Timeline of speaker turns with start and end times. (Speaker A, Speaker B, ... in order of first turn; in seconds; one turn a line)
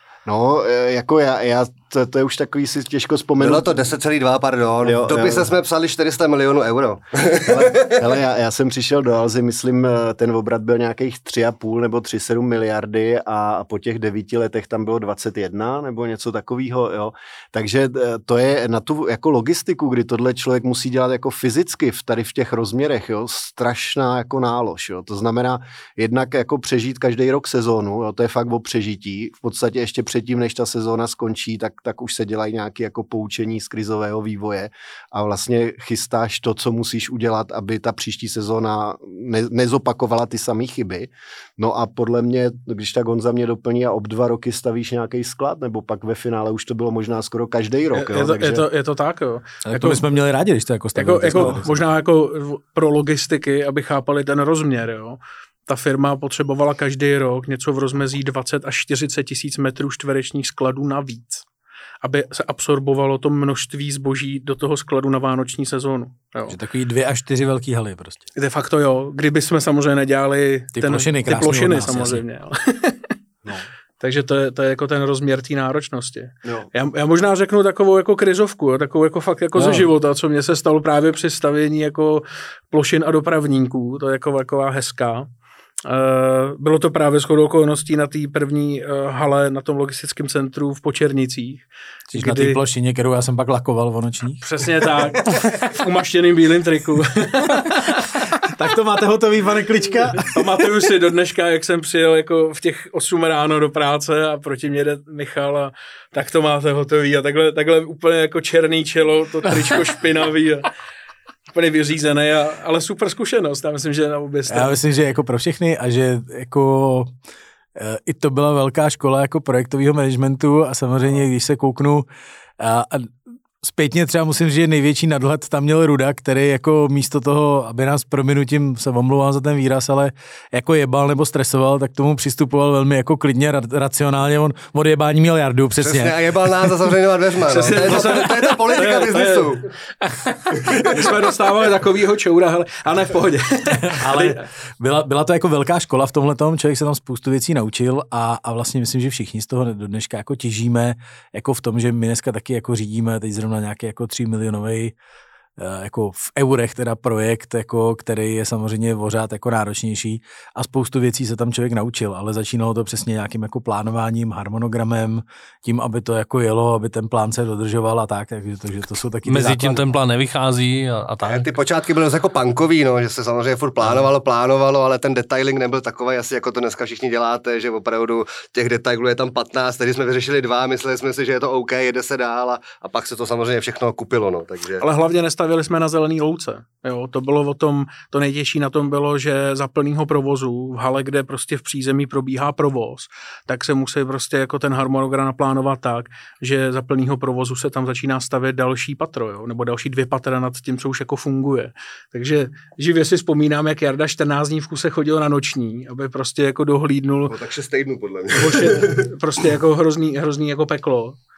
Speaker A: 0.2-3.7
Speaker B: 3.4-8.0
Speaker A: 4.8-5.5
Speaker A: 7.4-48.7
Speaker C: 47.9-50.0
Speaker D: 49.6-51.7
Speaker C: 50.9-61.5
Speaker A: 51.2-51.6
Speaker C: 62.0-66.6
Speaker D: 66.5-68.2
Speaker C: 68.3-73.1
Speaker D: 70.8-72.2
Speaker C: 74.0-85.3
Speaker D: 79.5-79.9
Speaker C: 85.8-92.6
Speaker D: 92.1-94.4
Speaker C: 94.4-97.8
Speaker D: 98.4-100.4
Speaker C: 100.2-110.7
Speaker C: 111.5-114.8
Speaker D: 114.5-117.1
Speaker D: 117.8-122.0
Speaker D: 122.6-136.7
Speaker B: 135.8-139.7
Speaker C: 137.5-144.4
Speaker B: 140.7-141.1
Speaker D: 143.7-154.9
Speaker D: 155.6-169.8
Speaker E: 169.2-171.4
Speaker B: 171.2-184.8
Speaker C: 184.8-207.4
Speaker B: 207.3-209.0
Speaker C: 208.3-211.2